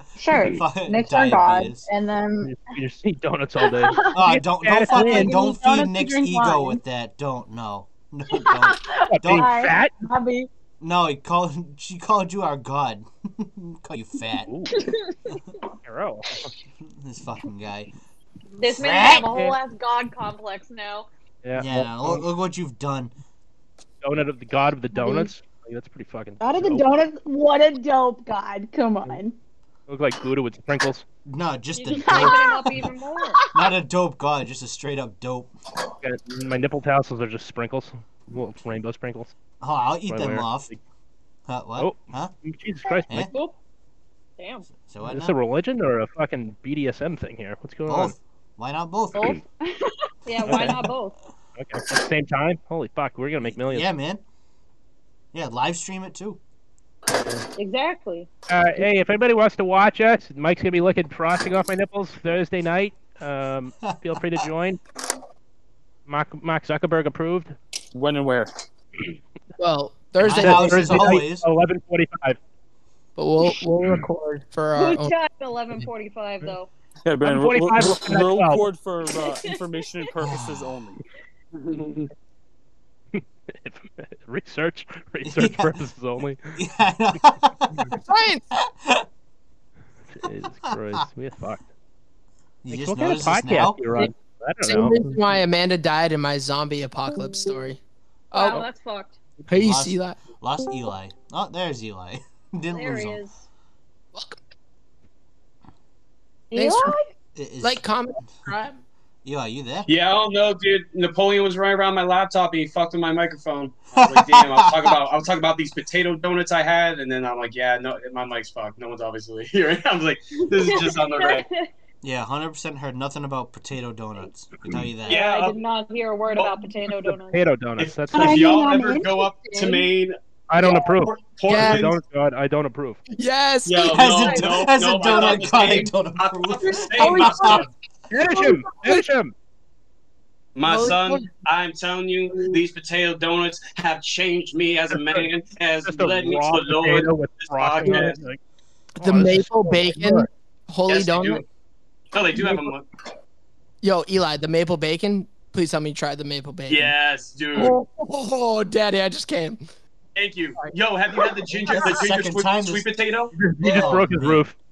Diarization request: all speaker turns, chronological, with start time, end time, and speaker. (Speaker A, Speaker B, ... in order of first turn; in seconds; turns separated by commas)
Speaker A: 0.1-2.5, Speaker B: 0.5-1.9, Speaker C: 2.4-5.3, Speaker A: 3.7-4.2, Speaker B: 4.1-9.5, Speaker A: 4.9-6.8, Speaker A: 8.3-10.5, Speaker C: 9.1-9.9, Speaker B: 10.8-14.5, Speaker C: 14.4-14.8, Speaker C: 15.8-16.5, Speaker B: 16.8-17.9, Speaker D: 18.6-21.1, Speaker B: 18.6-19.5, Speaker C: 21.4-22.2, Speaker B: 21.6-23.1, Speaker C: 24.0-26.8, Speaker A: 24.9-25.3, Speaker A: 26.4-29.4, Speaker C: 29.9-31.1, Speaker B: 31.2-32.9, Speaker D: 31.8-33.4, Speaker A: 32.0-33.6, Speaker B: 33.5-35.5, Speaker C: 36.0-39.3, Speaker B: 39.6-40.7, Speaker C: 40.1-40.8, Speaker B: 41.5-42.3, Speaker C: 41.8-43.3, Speaker D: 43.2-43.5, Speaker D: 44.4-44.7, Speaker B: 44.8-45.4, Speaker C: 45.0-48.1, Speaker B: 47.9-49.4, Speaker A: 49.1-49.9, Speaker D: 50.2-51.1, Speaker C: 50.5-50.9, Speaker B: 50.5-50.8, Speaker C: 51.6-53.9, Speaker B: 53.5-54.2, Speaker B: 55.3-56.4, Speaker D: 57.5-58.3, Speaker C: 58.5-64.8, Speaker B: 63.8-64.2, Speaker C: 66.1-67.5, Speaker E: 67.9-68.5, Speaker F: 69.6-71.2, Speaker B: 70.2-71.5, Speaker C: 70.2-72.4, Speaker F: 73.2-75.1, Speaker D: 74.7-76.7, Speaker E: 77.0-81.0, Speaker C: 77.2-78.7, Speaker D: 79.2-79.6, Speaker B: 80.2-80.6, Speaker E: 81.6-81.9, Speaker C: 81.7-82.0, Speaker C: 83.1-86.5, Speaker B: 85.2-85.8, Speaker B: 86.5-88.0, Speaker F: 88.0-88.4, Speaker B: 88.5-89.0, Speaker C: 90.1-91.6, Speaker B: 90.2-91.0, Speaker B: 92.6-93.8, Speaker C: 92.7-95.0, Speaker F: 94.6-97.8, Speaker F: 98.3-98.7, Speaker D: 98.3-99.2, Speaker F: 99.5-100.2, Speaker B: 99.5-103.2, Speaker D: 102.7-103.4, Speaker F: 104.1-104.4, Speaker A: 106.5-107.1, Speaker F: 106.5-106.9, Speaker B: 107.3-108.3, Speaker F: 107.6-108.8, Speaker B: 109.2-109.9, Speaker G: 109.8-121.4, Speaker B: 114.0-115.0, Speaker D: 120.5-121.7, Speaker B: 122.0-125.2, Speaker G: 125.0-125.5, Speaker D: 125.0-127.4, Speaker G: 126.3-126.6, Speaker C: 127.2-128.6, Speaker G: 127.8-132.0, Speaker A: 128.1-129.9, Speaker C: 130.5-133.0, Speaker F: 131.5-131.8, Speaker F: 133.1-134.7, Speaker G: 133.6-137.7, Speaker B: 133.9-137.6, Speaker F: 136.7-139.0, Speaker C: 138.1-139.3, Speaker G: 140.6-148.2, Speaker F: 140.7-141.3, Speaker C: 144.9-145.3, Speaker C: 145.8-148.4, Speaker C: 149.0-150.3, Speaker F: 149.0-151.4, Speaker G: 150.9-151.4, Speaker G: 152.1-152.9, Speaker F: 152.3-152.7, Speaker F: 153.8-156.9, Speaker G: 156.7-157.8, Speaker F: 157.5-159.6, Speaker G: 160.2-163.9, Speaker F: 161.2-161.9, Speaker B: 161.7-162.8, Speaker C: 163.3-164.6, Speaker B: 163.6-164.4